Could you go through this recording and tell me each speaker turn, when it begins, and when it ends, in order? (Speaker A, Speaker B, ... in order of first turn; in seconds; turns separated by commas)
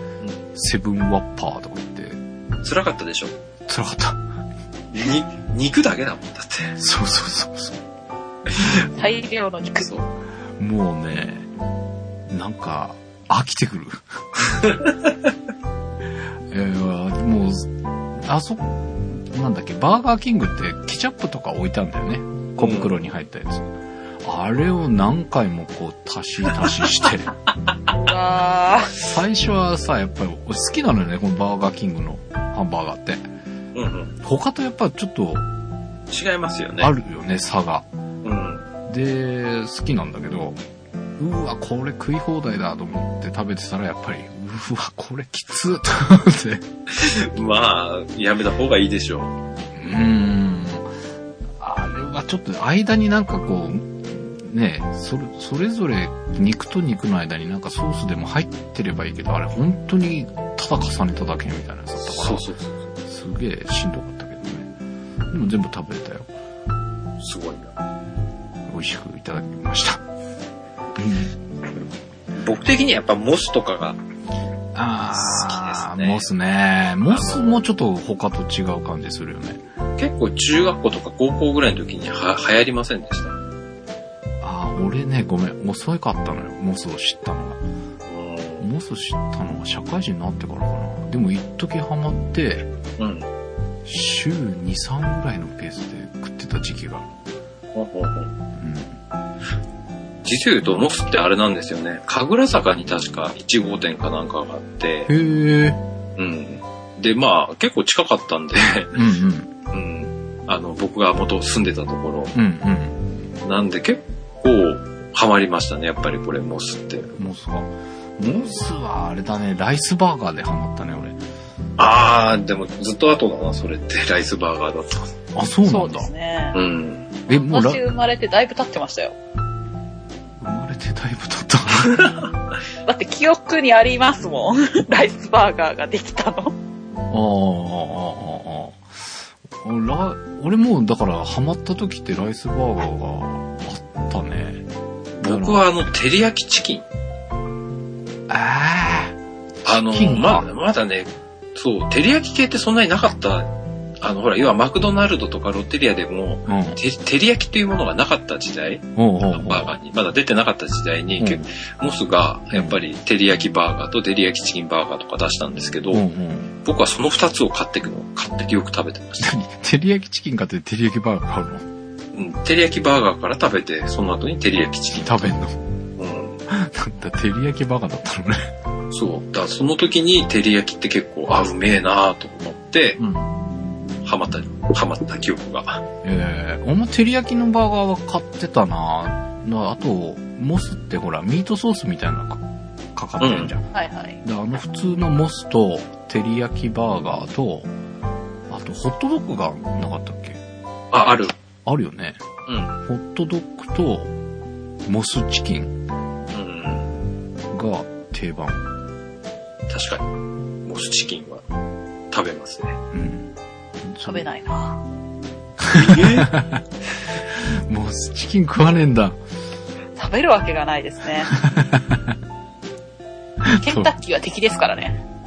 Speaker A: 0.5-2.2, Speaker B: 2.6-3.3, Speaker A: 3.7-4.2, Speaker B: 4.9-6.8, Speaker A: 6.8-7.8, Speaker A: 8.6-8.9, Speaker C: 8.9-9.9, Speaker A: 10.6-11.5, Speaker A: 12.3-14.0, Speaker A: 16.5-17.7, Speaker A: 18.2-27.3, Speaker B: 22.6-22.9, Speaker C: 27.9-28.9, Speaker A: 29.1-33.2, Speaker B: 33.7-34.1, Speaker A: 34.2-35.4, Speaker B: 36.1-36.9, Speaker A: 36.8-37.9, Speaker B: 38.2-38.6, Speaker A: 38.9-40.6, Speaker A: 41.2-46.6, Speaker B: 46.9-49.3, Speaker A: 49.8-50.9, Speaker A: 51.6-62.5, Speaker B: 62.0-62.8, Speaker A: 63.0-64.7, Speaker A: 65.3-66.3, Speaker B: 67.2-67.7, Speaker A: 68.7-70.0, Speaker A: 70.9-71.3, Speaker B: 72.3-74.0, Speaker A: 74.7-79.6, Speaker B: 75.1-76.2, Speaker B: 77.1-77.6, Speaker B: 80.0-83.4, Speaker A: 84.4-87.6, Speaker B: 88.1-88.7, Speaker A: 88.6-92.7, Speaker B: 93.0-93.3, Speaker A: 93.8-97.1, Speaker B: 97.7-98.3, Speaker A: 98.6-98.9, Speaker B: 100.2-105.1, Speaker A: 105.1-105.8, Speaker B: 106.2-109.0, Speaker A: 108.9-109.5, Speaker B: 109.7-112.3, Speaker A: 112.3-113.0, Speaker B: 113.4-117.1, Speaker A: 117.2-121.2, Speaker B: 118.2-118.5, Speaker B: 121.8-125.1, Speaker A: 125.3-126.1, Speaker C: 125.6-126.6, Speaker B: 126.5-127.1, Speaker A: 127.3-127.8, Speaker C: 127.3-129.2, Speaker A: 130.4-132.2, Speaker B: 131.9-132.2, Speaker C: 132.8-136.5, Speaker A: 137.1-144.6, Speaker B: 145.2-146.8, Speaker A: 145.2-145.6, Speaker A: 148.3-150.5, Speaker B: 149.6-166.0, Speaker A: 156.5-156.8, Speaker A: 158.9-159.7, Speaker A: 161.2-161.5, Speaker A: 162.5-162.8, Speaker A: 165.9-166.5, Speaker B: 166.6-169.3, Speaker A: 169.2-171.7, Speaker B: 172.1-175.3, Speaker A: 174.9-175.6, Speaker B: 176.0-176.4, Speaker A: 176.5-178.5, Speaker B: 178.9-183.0, Speaker A: 183.0-183.3, Speaker B: 184.0-185.8, Speaker A: 186.0-192.4, Speaker A: 192.9-193.6, Speaker B: 193.2-193.5, Speaker C: 193.7-194.2, Speaker A: 194.2-197.7, Speaker A: 198.5-200.4, Speaker B: 200.9-201.3, Speaker A: 201.6-202.2, Speaker B: 202.5-202.8, Speaker A: 202.8-204.1, Speaker A: 204.8-205.8, Speaker B: 206.3-206.9, Speaker A: 207.5-208.6, Speaker B: 209.7-210.1, Speaker B: 210.6-211.4, Speaker B: 212.1-212.8, Speaker A: 212.9-213.3, Speaker A: 213.8-214.2, Speaker C: 214.0-214.8, Speaker A: 215.6-216.6, Speaker B: 215.7-216.3, Speaker A: 217.2-219.2, Speaker C: 220.0-221.3, Speaker A: 221.3-222.2, Speaker A: 223.4-223.9, Speaker C: 223.6-225.0